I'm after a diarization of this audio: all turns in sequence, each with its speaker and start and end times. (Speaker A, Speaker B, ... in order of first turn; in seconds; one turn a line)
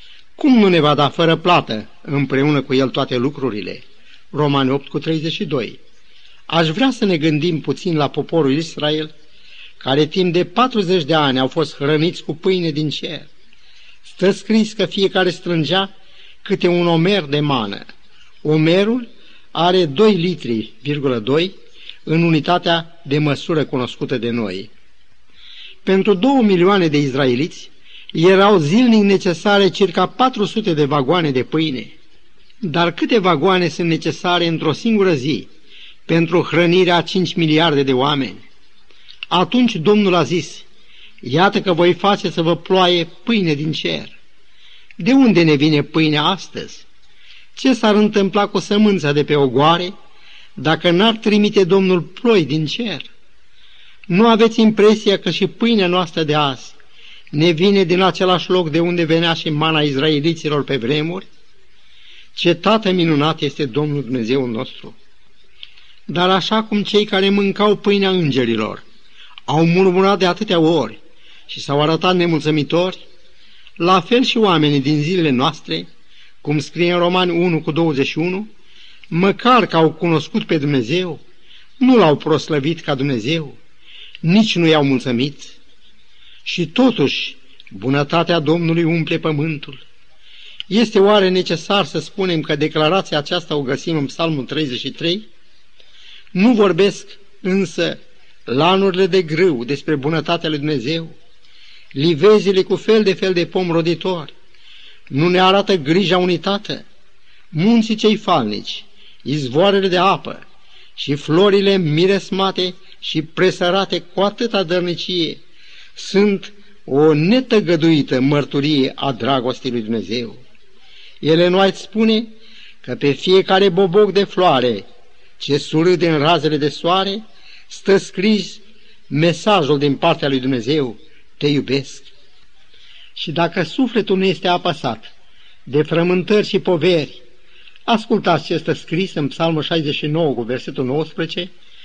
Speaker A: 0.4-5.8
Speaker A: 6.5-9.1
Speaker A: 9.8-13.3
Speaker A: 14.0-15.9
Speaker A: 16.4-17.8
Speaker A: 18.4-21.5
Speaker A: 22.1-24.7
Speaker A: 25.8-31.9
Speaker A: 32.6-35.5
Speaker A: 36.1-38.4
Speaker A: 39.3-40.6
Speaker A: 41.2-44.1
Speaker A: 45.0-46.8
Speaker A: 47.5-49.9
Speaker A: 50.6-53.1
Speaker A: 54.1-56.7
Speaker A: 57.3-61.2
Speaker A: 62.3-65.0
Speaker A: 66.1-68.8
Speaker A: 69.5-73.0
Speaker A: 73.8-75.9
Speaker A: 76.4-78.5
Speaker A: 79.1-81.2
Speaker A: 81.8-83.6
Speaker A: 84.2-85.6
Speaker A: 86.4-89.8
Speaker A: 90.7-95.3
Speaker A: 96.3-101.2
Speaker A: 101.9-104.3
Speaker A: 105.1-106.8
Speaker A: 107.5-110.4
Speaker A: 111.0-115.4
Speaker A: 116.0-120.4
Speaker A: 121.2-122.3
Speaker A: 122.8-124.8
Speaker A: 125.4-132.1
Speaker A: 133.2-135.1
Speaker A: 135.7-137.2
Speaker A: 137.8-141.5